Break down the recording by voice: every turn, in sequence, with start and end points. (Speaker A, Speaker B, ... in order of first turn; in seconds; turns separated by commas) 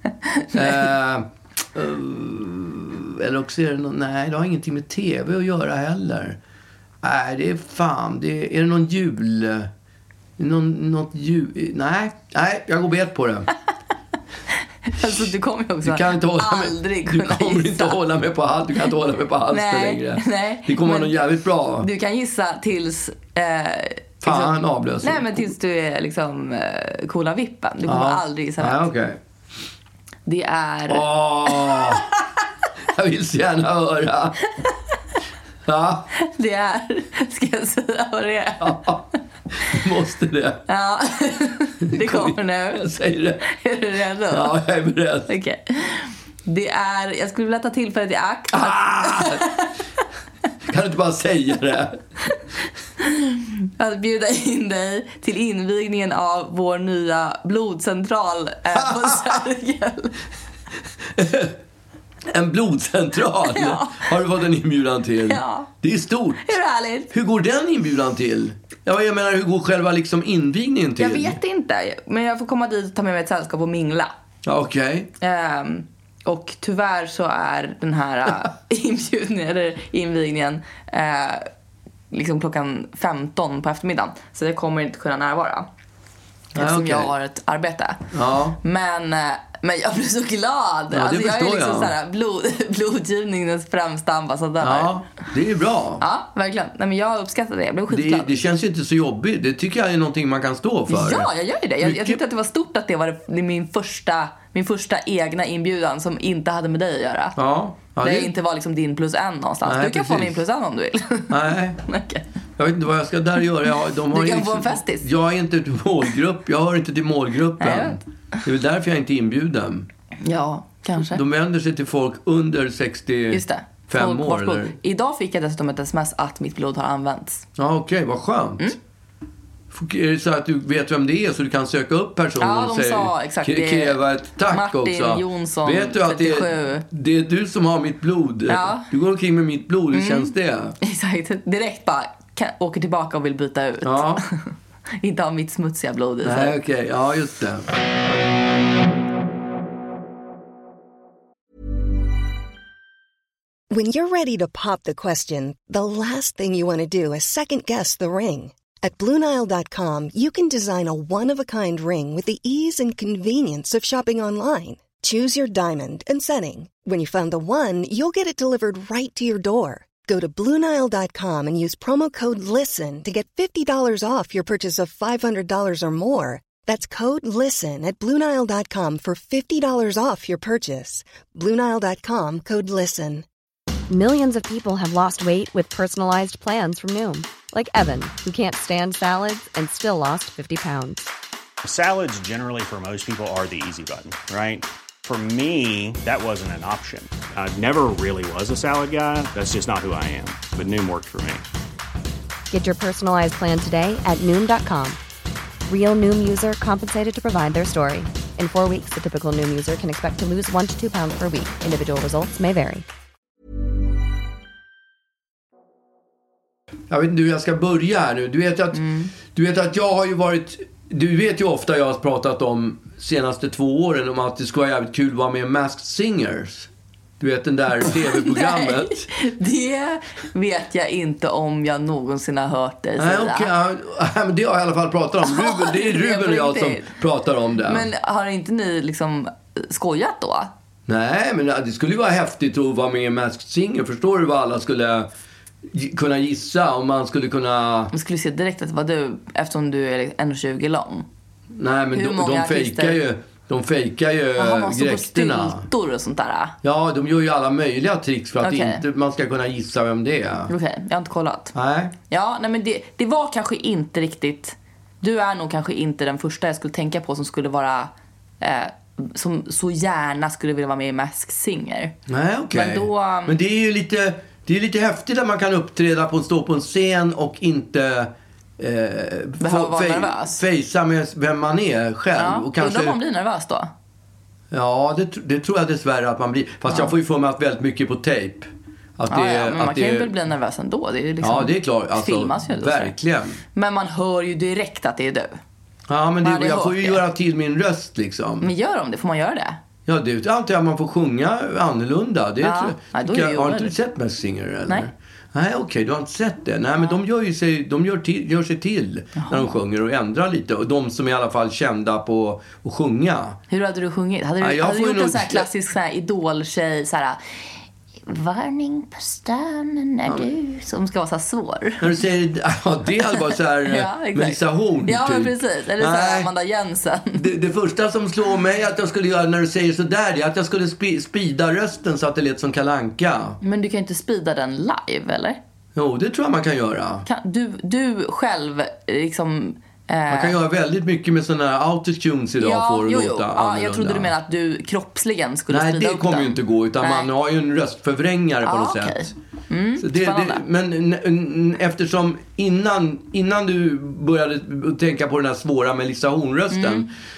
Speaker A: 0.2-0.8, Speaker B: 0.5-6.4, Speaker B: 7.0-9.7, Speaker B: 10.4-13.5, Speaker A: 14.9-18.0, Speaker B: 15.8-21.9, Speaker A: 19.5-21.2, Speaker A: 21.8-28.9, Speaker B: 24.2-25.4, Speaker B: 27.8-29.2, Speaker A: 30.2-32.0, Speaker B: 30.9-32.0, Speaker B: 32.9-34.4, Speaker B: 35.6-36.1, Speaker A: 36.1-38.9, Speaker B: 38.6-39.0, Speaker B: 39.6-40.6, Speaker A: 40.7-42.8, Speaker B: 41.9-43.4, Speaker A: 43.4-44.5, Speaker B: 44.3-45.3, Speaker A: 45.3-49.7, Speaker B: 48.5-49.4, Speaker B: 50.7-52.0, Speaker A: 53.0-60.2, Speaker B: 58.7-59.4, Speaker B: 61.1-61.6, Speaker B: 62.3-66.6, Speaker A: 63.4-64.1, Speaker A: 65.2-65.7, Speaker A: 66.4-67.1, Speaker B: 67.1-71.4, Speaker A: 71.0-74.1, Speaker B: 74.4-75.1, Speaker A: 75.2-81.5, Speaker A: 82.1-85.7, Speaker B: 86.5-87.1, Speaker A: 86.5-88.1, Speaker B: 88.1-88.6, Speaker A: 88.6-94.9, Speaker B: 90.9-91.9, Speaker B: 94.6-96.0, Speaker A: 96.0-98.3, Speaker B: 97.9-101.3, Speaker A: 100.9-107.4, Speaker B: 101.8-102.2, Speaker B: 107.3-108.3, Speaker A: 108.0-111.3, Speaker B: 109.6-110.4, Speaker B: 111.3-111.8, Speaker A: 111.8-112.2, Speaker B: 112.6-119.9, Speaker A: 114.1-115.1, Speaker A: 117.6-118.0, Speaker A: 120.2-121.2, Speaker B: 121.1-124.8, Speaker A: 123.3-127.4, Speaker B: 127.6-128.7, Speaker B: 129.7-140.8, Speaker A: 132.4-136.8, Speaker A: 138.5-138.9, Speaker A: 139.9-144.5, Speaker B: 143.8-144.2, Speaker A: 145.0-146.6, Speaker B: 146.2-147.7, Speaker C: 153.7-183.2, Speaker D: 183.9-191.1, Speaker E: 191.6-201.4, Speaker D: 202.5-205.0, Speaker D: 205.7-212.8, Speaker B: 216.9-229.1, Speaker A: 218.7-219.1, Speaker A: 227.8-233.5, Speaker B: 233.0-237.9, Speaker A: 235.2-236.9, Speaker A: 237.6-240.5, Speaker B: 240.9-245.1, Speaker B: 245.7-247.9, Speaker A: 247.9-251.0, Speaker B: 251.5-255.7, Speaker A: 251.9-253.0, Speaker A: 254.4-256.5, Speaker B: 256.6-260.5, Speaker A: 258.4-258.8, Speaker A: 260.5-261.5, Speaker B: 261.5-261.9, Speaker A: 262.1-271.9, Speaker B: 272.1-283.0, Speaker A: 272.5-273.4, Speaker A: 279.4-280.4, Speaker A: 282.1-283.7, Speaker B: 284.5-290.1, Speaker A: 286.7-286.9, Speaker A: 289.1-292.9, Speaker B: 291.2-293.4, Speaker A: 293.5-295.4, Speaker B: 295.9-298.5, Speaker A: 296.2-297.0, Speaker A: 298.4-299.6, Speaker B: 299.9-313.4, Speaker A: 302.4-303.7, Speaker A: 309.2-309.5, Speaker A: 313.5-317.2, Speaker B: 314.4-315.5, Speaker A: 318.1-321.9, Speaker B: 321.8-326.3, Speaker A: 323.7-327.2, Speaker B: 327.1-333.4, Speaker A: 333.4-335.4, Speaker B: 335.7-337.1, Speaker A: 337.1-340.4, Speaker B: 340.1-344.1, Speaker A: 342.4-347.1, Speaker B: 345.5-349.1, Speaker A: 348.4-350.4, Speaker B: 349.8-356.9, Speaker A: 356.5-356.9